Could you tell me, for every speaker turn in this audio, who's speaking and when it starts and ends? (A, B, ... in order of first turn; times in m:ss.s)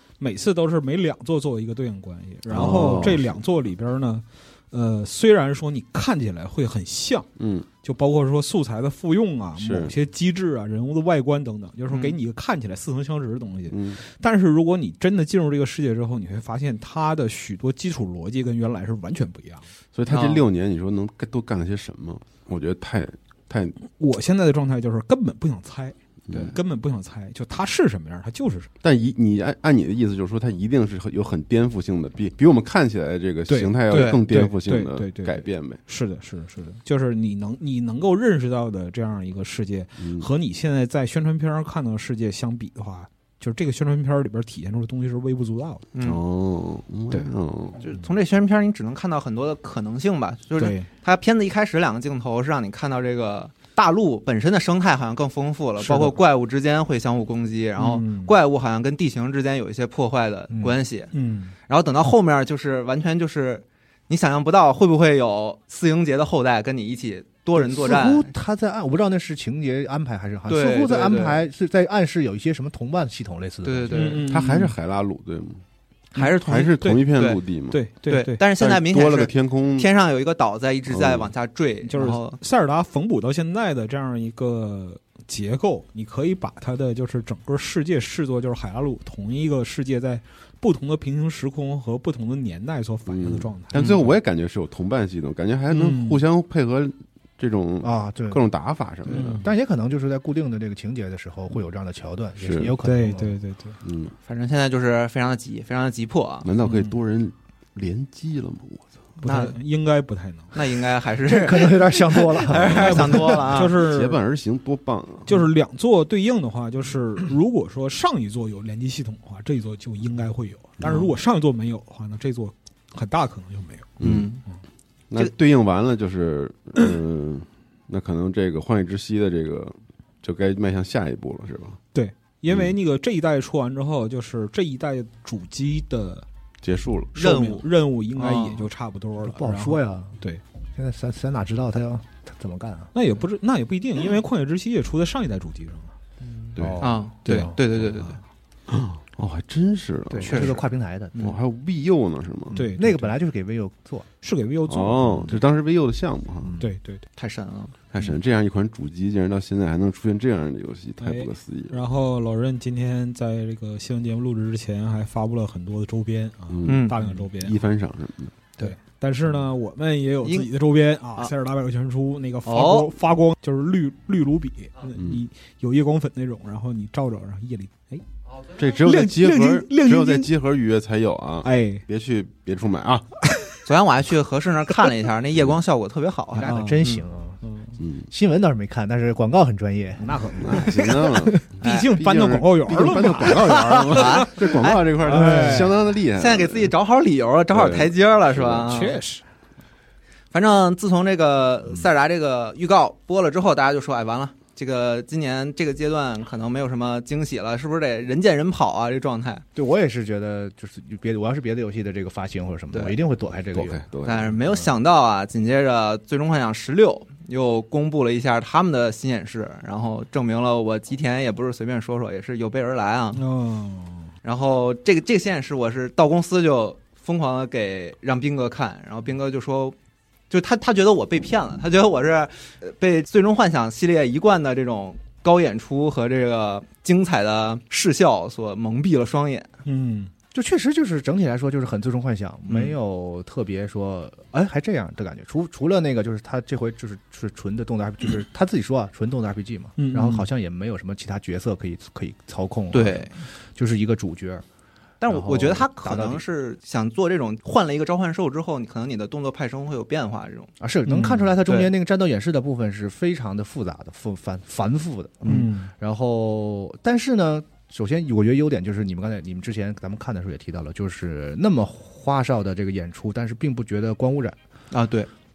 0:00.2-0:07.3 A
0:02.5-0:03.4 B
0:07.4-0:07.7 B
0:07.8-0:19.7 A
0:09.6-0:10.0 B
0:11.9-0:12.2 C
0:13.7-0:14.0 B
0:20.0-0:23.8 B
0:20.1-0:20.4 C
0:23.9-0:28.7 A
0:26.3-0:26.6 B
0:28.8-0:35.8 B
0:33.5-0:45.9 A
0:33.9-0:34.2 C
0:40.0-0:40.3 B
0:45.9-0:46.2 C
0:46.0-0:47.8 B
0:47.8-1:01.1 C
0:50.6-0:50.9 A
0:55.8-0:56.2 A
0:57.8-0:58.4 A
1:01.1-1:01.6 A
1:01.7-1:08.3 C
1:07.6-1:14.2 D
1:10.5-1:11.4 C
1:13.6-1:14.2 C
1:13.9-1:14.8 A
1:14.3-1:15.6 B
1:16.2-1:17.4 C
1:16.2-1:17.0 A
1:16.3-1:17.8 B
1:17.7-1:18.4 A
1:18.1-1:22.4 C
1:18.6-1:19.9 B
1:20.9-1:21.3 B
1:21.8-1:33.9 A
1:33.1-1:39.4 B
1:33.7-1:34.1 C
1:35.7-1:36.2 A
1:37.8-1:38.4 D
1:39.1-1:39.5 A
1:39.1-1:43.4 D
1:42.4-1:42.7 B
1:42.8-1:43.8 A
1:43.8-1:44.1 B
1:44.2-1:46.5 C
1:46.4-1:48.9 B
1:46.6-1:47.0 A
1:49.2-1:50.5 A
1:49.2-1:49.6 C
1:50.5-1:53.8 C
1:51.3-1:53.6 D
1:52.7-1:54.2 A
1:53.8-1:55.4 B
1:55.3-2:04.0 A
2:00.8-2:01.1 B
2:04.0-2:04.3 B
2:04.0-2:04.4 C
2:05.1-2:11.8 B
2:11.9-2:16.3 A
2:12.5-2:12.7 B
2:16.6-2:17.2 B
2:17.2-2:20.4 A
2:17.2-2:18.7 C
2:19.2-2:20.2 D
2:20.8-2:22.9 D
2:22.9-2:25.9 A
2:26.2-2:28.2 C
2:26.6-2:26.9 B
2:26.6-2:28.2 A
2:28.7-2:30.5 B
2:30.1-2:30.6 C
2:30.2-2:31.2 D
2:31.2-2:32.6 B
2:32.5-2:34.1 D
2:32.5-2:33.2 A
2:34.2-2:35.4 A
2:34.7-2:36.5 B
2:36.4-2:36.7 D
2:36.6-2:37.0 A
2:37.2-2:37.8 C
2:37.9-2:41.8 B
2:41.0-2:47.6 A
2:46.5-2:48.4 B
2:46.6-2:47.0 C
2:48.6-2:58.0 A
2:50.2-2:50.5 C
2:52.4-2:52.9 C
2:55.0-2:55.2 B
2:58.6-3:03.1 B
2:58.6-3:00.3 A
3:01.4-3:01.8 A
3:03.7-3:07.0 C
3:06.3-3:07.4 D
3:06.4-3:06.9 A
3:07.4-3:07.8 A
3:07.8-3:08.1 B
3:08.1-3:10.7 D
3:10.0-3:15.8 A
3:10.4-3:16.7 B
3:13.9-3:14.8 C
3:15.0-3:15.7 D
3:16.2-3:19.0 C
3:17.5-3:18.8 B
3:18.7-3:19.2 A
3:20.3-3:29.4 C
3:29.6-3:33.8 D
3:32.7-3:33.0 C
3:33.5-3:34.4 B
3:34.0-3:43.2 C
3:43.2-3:44.1 A
3:44.2-3:49.8 C
3:50.3-3:59.5 C
3:59.6-4:00.1 A
4:00.3-4:14.4 D
4:02.5-4:02.7 C
4:09.8-4:10.3 A
4:12.7-4:13.2 C
4:15.0-4:20.5 C
4:15.1-4:16.2 D
4:20.6-4:34.4 D
4:20.9-4:21.3 A
4:21.4-4:21.7 C
4:25.2-4:25.5 C
4:25.3-4:25.7 A
4:34.7-4:35.1 C